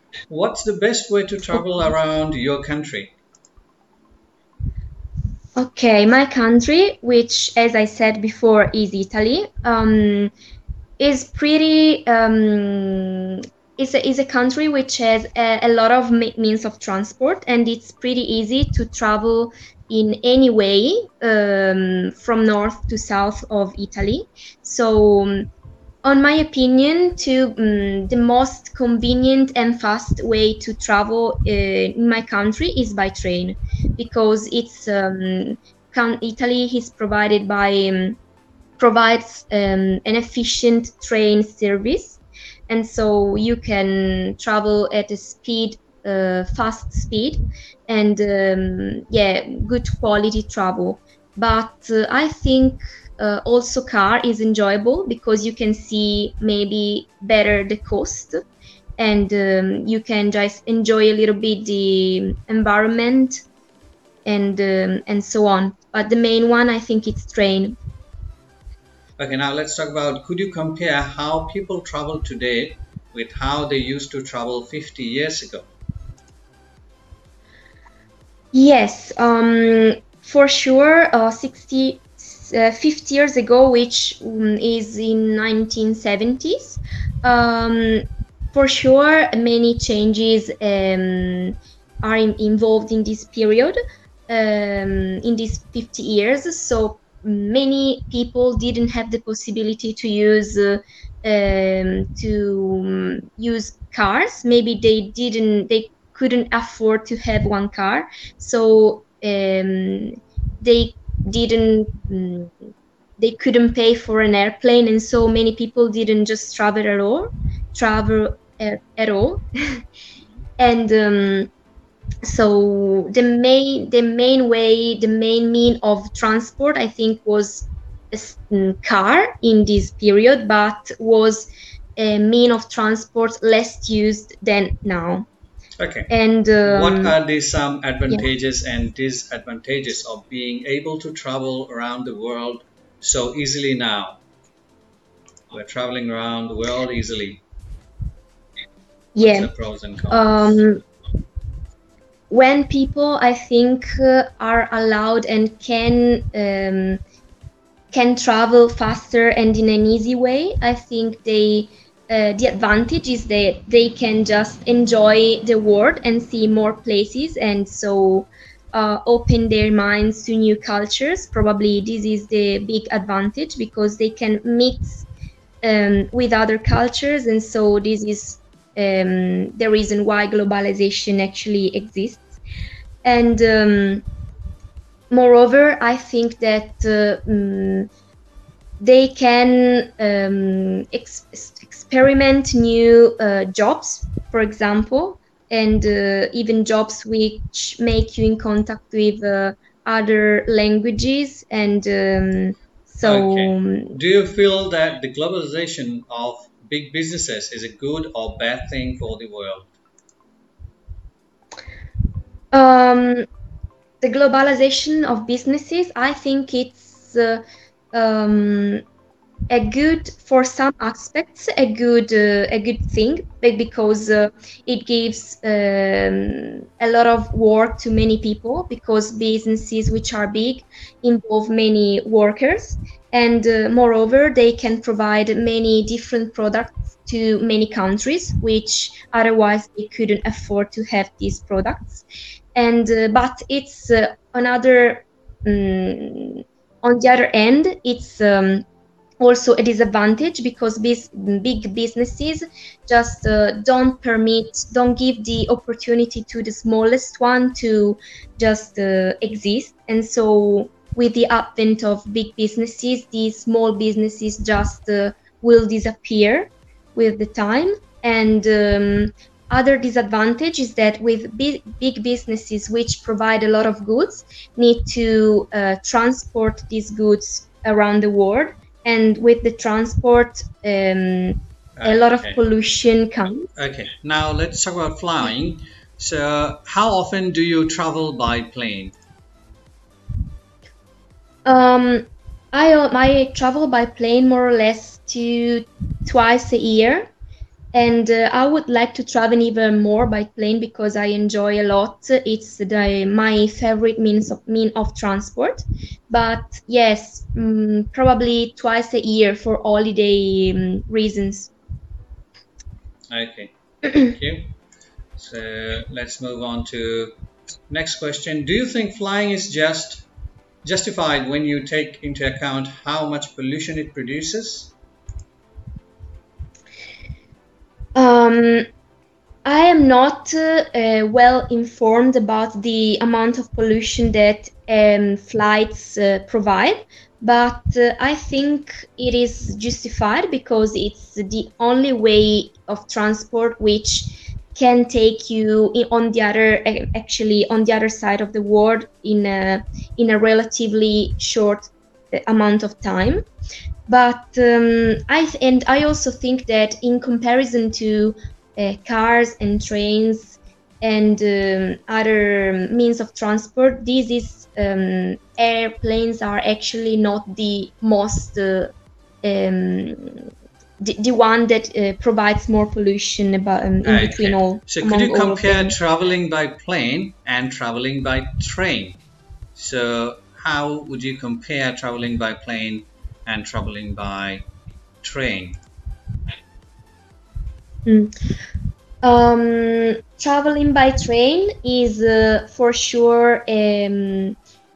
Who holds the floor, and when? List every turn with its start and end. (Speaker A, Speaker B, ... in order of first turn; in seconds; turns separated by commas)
Speaker A: 0.3-3.1, Speaker B: 5.5-10.3, Speaker B: 11.0-25.5, Speaker B: 26.0-38.2, Speaker B: 38.8-58.4, Speaker B: 59.0-63.4, Speaker B: 64.2-67.8, Speaker A: 69.2-75.7, Speaker B: 78.5-93.8, Speaker B: 94.3-112.6, Speaker B: 113.2-119.8, Speaker B: 120.6-121.5, Speaker B: 122.2-135.3, Speaker A: 135.8-136.1, Speaker B: 136.1-137.1, Speaker A: 136.6-144.2, Speaker A: 145.5-147.4, Speaker B: 149.1-149.5, Speaker A: 149.2-150.7, Speaker B: 150.1-150.8, Speaker B: 152.3-157.0, Speaker B: 157.9-175.1, Speaker B: 175.6-182.4, Speaker B: 183.0-184.0, Speaker B: 185.1-187.9, Speaker B: 188.8-204.0, Speaker A: 203.0-209.7, Speaker B: 212.5-213.2, Speaker B: 214.0-218.8, Speaker B: 219.5-248.6, Speaker B: 249.2-283.5, Speaker A: 281.8-282.4, Speaker A: 283.6-288.9, Speaker B: 291.4-297.1, Speaker B: 297.7-311.5, Speaker A: 313.1-314.5, Speaker A: 315.1-317.1, Speaker A: 317.7-320.1, Speaker A: 320.6-324.7, Speaker B: 327.9-328.7, Speaker B: 329.4-353.2, Speaker B: 353.9-370.3, Speaker B: 370.8-375.7, Speaker A: 373.8-379.0, Speaker A: 379.5-384.4, Speaker A: 385.0-385.6, Speaker B: 387.9-388.1, Speaker B: 389.0-394.4